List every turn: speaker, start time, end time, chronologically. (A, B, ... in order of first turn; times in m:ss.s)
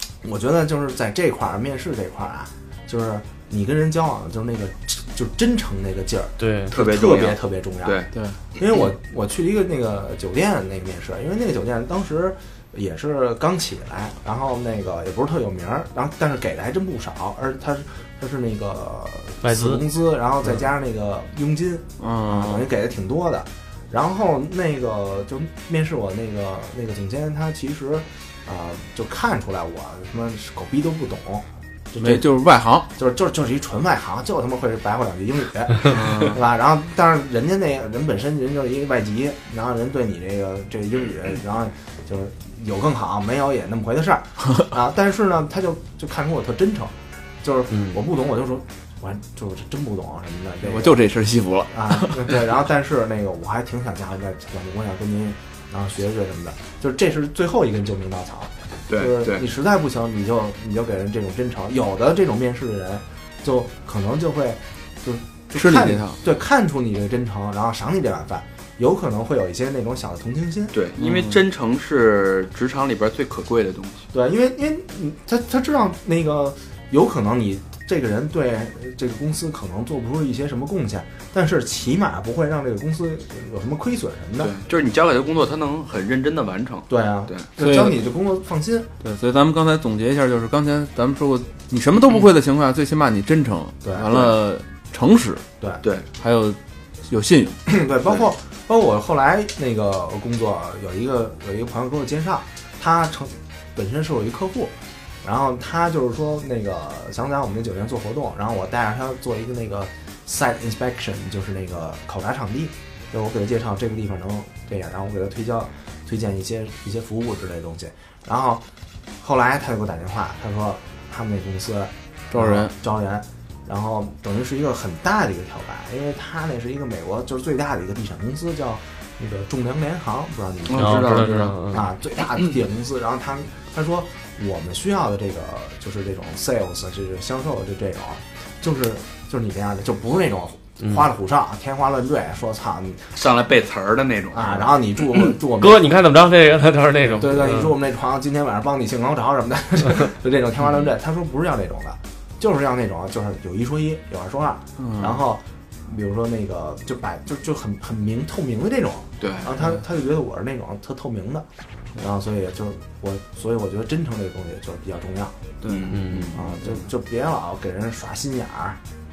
0:00.2-0:08.1 A
0:06.4-0:06.7 B
0:06.7-0:08.1 C
0:08.6-0:32.3 A
0:19.4-0:19.8 B
0:22.0-0:22.7 D
0:32.0-0:32.9 D
0:32.9-0:51.1 A
0:35.9-0:36.4 D
0:47.7-0:48.0 B
0:50.6-0:52.4 D
0:51.7-1:10.8 A
0:58.9-0:59.5 C
1:05.6-1:06.2 D
1:10.7-1:14.1 C
1:11.0-1:11.4 D
1:14.1-1:24.6 A
1:24.4-1:27.5 C
1:26.9-1:28.9 A
1:27.6-1:28.0 D
1:29.0-1:35.4 D
1:33.8-1:34.4 A
1:35.8-1:36.1 C
1:36.2-1:37.6 D
1:37.7-1:58.6 A
1:59.2-2:23.2 A
2:02.3-2:02.7 D
2:10.7-2:11.6 C
2:10.7-2:11.9 B
2:23.2-2:25.3 C
2:24.3-2:26.0 A
2:25.6-2:27.8 B
2:27.1-2:45.4 A
2:34.8-2:35.2 D
2:39.2-2:39.5 C
2:45.6-2:46.4 D
2:45.7-2:46.4 C
2:45.9-2:46.3 B
2:46.3-2:48.8 A